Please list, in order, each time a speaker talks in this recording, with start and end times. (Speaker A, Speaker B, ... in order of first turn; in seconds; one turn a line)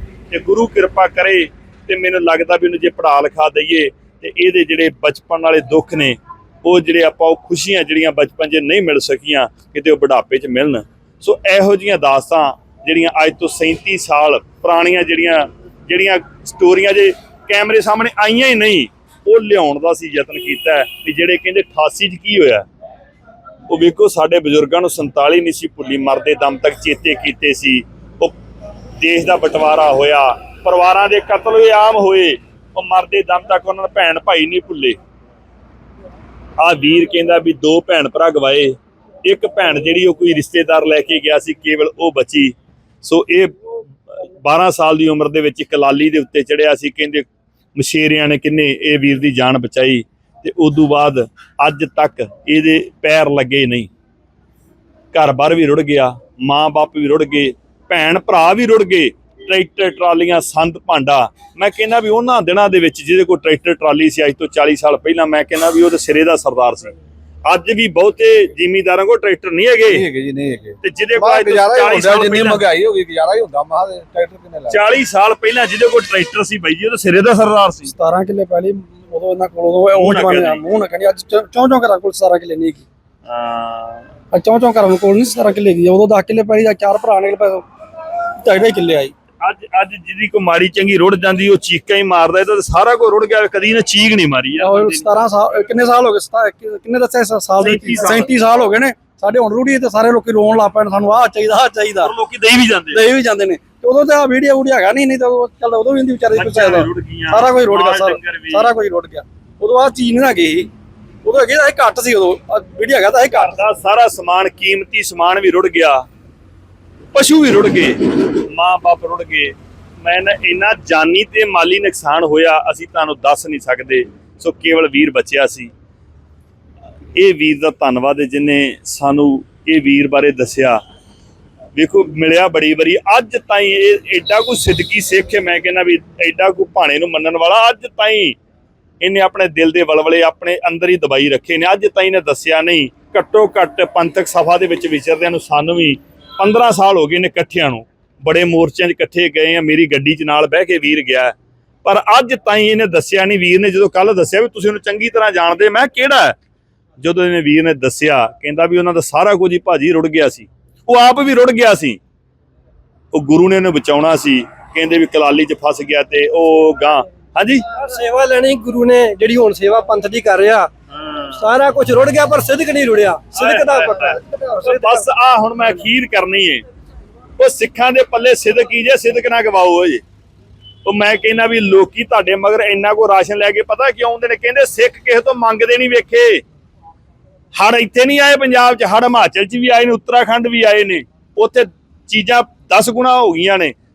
Speaker A: 0.3-22.7
Speaker A: 23.7-28.4
Speaker A: 29.0-35.0
Speaker A: 36.6-43.6
Speaker A: 44.4-53.9
Speaker A: 55.1-66.9
Speaker A: 67.5-70.1
Speaker B: 69.9-74.8
Speaker A: 70.8-72.6
Speaker A: 74.7-77.9
Speaker C: 77.8-82.8
Speaker A: 79.9-80.6
Speaker A: 83.2-84.1
Speaker C: 84.3-87.7
Speaker C: 88.4-89.1
Speaker A: 89.4-95.1
Speaker C: 94.6-102.1
Speaker A: 97.6-98.3
Speaker A: 102.0-103.0
Speaker C: 102.9-110.7
Speaker A: 106.3-108.7
Speaker C: 111.2-113.6
Speaker A: 113.3-116.1
Speaker A: 117.2-125.7
Speaker A: 127.2-130.8
Speaker A: 131.8-138.4
Speaker A: 139.0-156.4
Speaker A: 157.0-162.0
Speaker A: 163.1-167.7
Speaker D: 167.7-170.7
Speaker A: 170.9-171.3
Speaker D: 171.3-175.0
Speaker A: 173.3-176.6
Speaker A: 177.4-180.0
Speaker A: 180.8-186.4
Speaker A: 187.6-193.8